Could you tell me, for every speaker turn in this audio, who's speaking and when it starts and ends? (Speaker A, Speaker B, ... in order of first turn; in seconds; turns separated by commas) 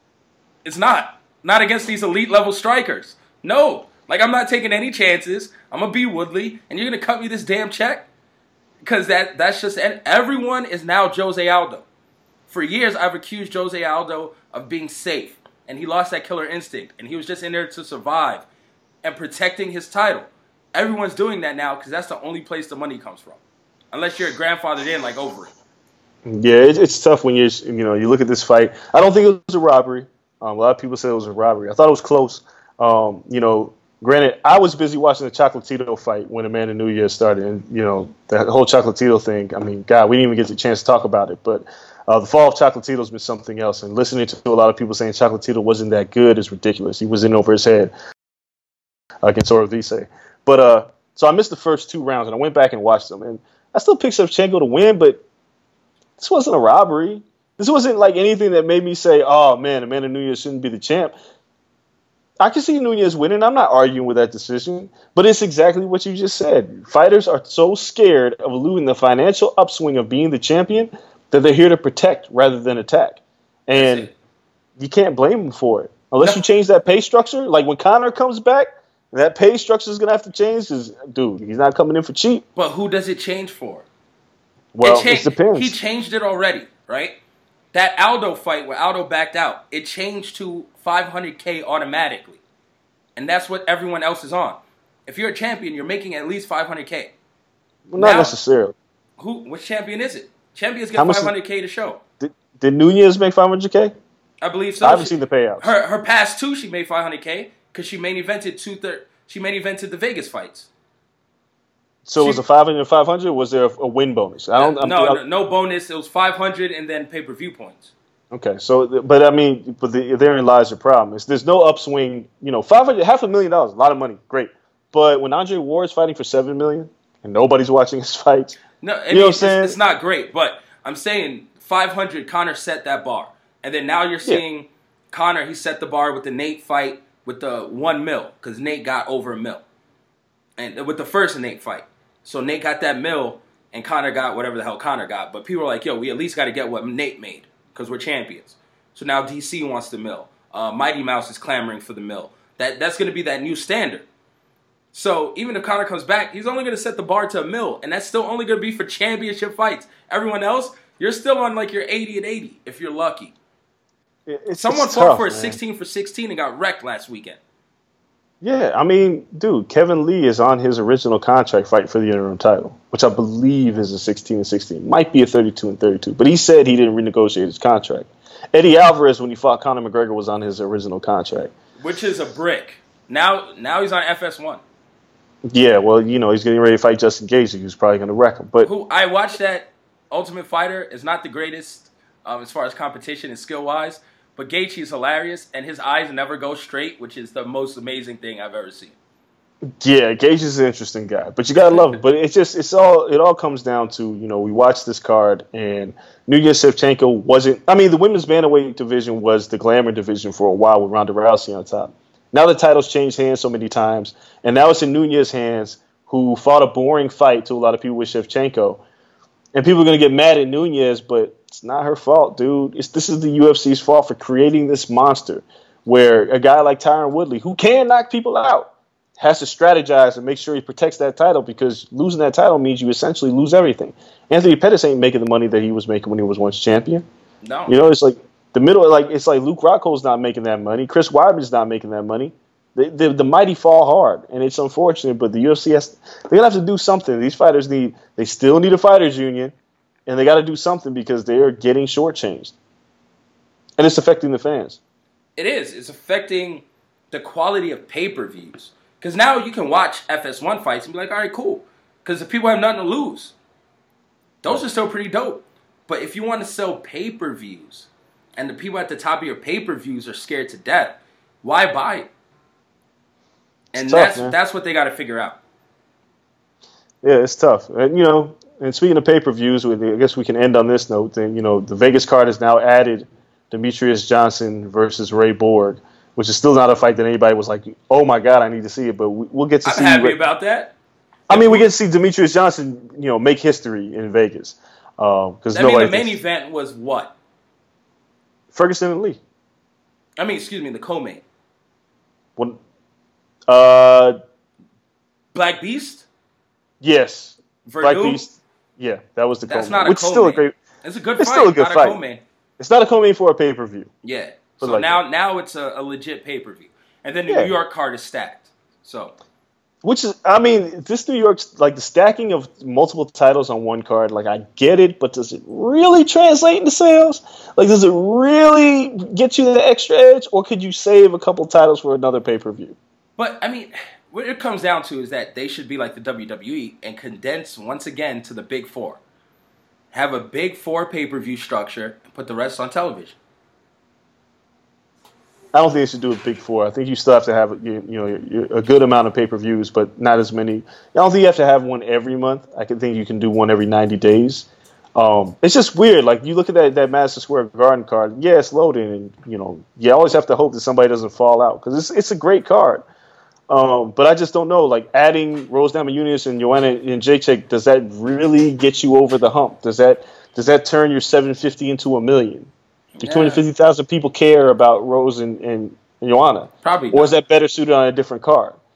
Speaker A: 0.6-8.1, Speaker A: 8.8-11.8, Speaker A: 12.5-18.4, Speaker A: 19.0-23.4, Speaker A: 23.9-25.5, Speaker B: 26.2-47.9, Speaker B: 49.2-55.2, Speaker B: 56.2-61.1, Speaker B: 62.4-74.1, Speaker A: 73.7-74.1, Speaker B: 74.8-82.4, Speaker A: 82.5-83.8, Speaker B: 84.7-85.7, Speaker A: 84.8-87.2, Speaker A: 87.7-92.4, Speaker A: 93.2-97.1, Speaker B: 97.9-98.7, Speaker A: 98.0-98.3, Speaker A: 99.2-102.0, Speaker B: 101.0-101.3, Speaker B: 102.2-103.9, Speaker A: 104.4-110.7, Speaker B: 104.8-105.7, Speaker B: 112.0-115.2, Speaker A: 112.2-112.4, Speaker A: 114.5-117.9, Speaker B: 118.3-128.6, Speaker A: 128.8-139.6, Speaker B: 129.1-129.8, Speaker A: 140.6-154.0, Speaker A: 154.9-163.3, Speaker B: 164.3-165.6, Speaker A: 164.6-167.4, Speaker B: 168.4-181.5, Speaker A: 181.8-184.6, Speaker B: 185.5-188.7, Speaker A: 188.6-198.9, Speaker B: 199.8-218.8, Speaker B: 219.5-237.0, Speaker A: 237.4-237.8, Speaker B: 237.7-249.5, Speaker B: 250.1-252.5, Speaker B: 253.8-254.8, Speaker A: 255.4-263.3, Speaker A: 264.4-272.1, Speaker A: 273.7-275.4, Speaker B: 273.8-274.4, Speaker B: 277.0-290.2, Speaker A: 289.6-290.7, Speaker B: 291.3-296.2, Speaker A: 291.3-291.7, Speaker A: 295.5-297.1, Speaker B: 298.5-299.2, Speaker A: 300.2-301.2, Speaker B: 303.5-304.2, Speaker A: 305.3-306.1, Speaker B: 306.8-310.5, Speaker A: 307.6-308.2, Speaker A: 309.5-312.2, Speaker B: 311.2-312.0, Speaker B: 312.6-313.9, Speaker A: 314.0-319.1, Speaker B: 314.6-315.0, Speaker B: 319.8-332.7, Speaker A: 333.2-339.0, Speaker A: 339.9-343.2, Speaker B: 345.5-362.8, Speaker B: 363.5-372.5, Speaker A: 373.0-373.4, Speaker B: 373.0-378.6, Speaker A: 376.6-377.1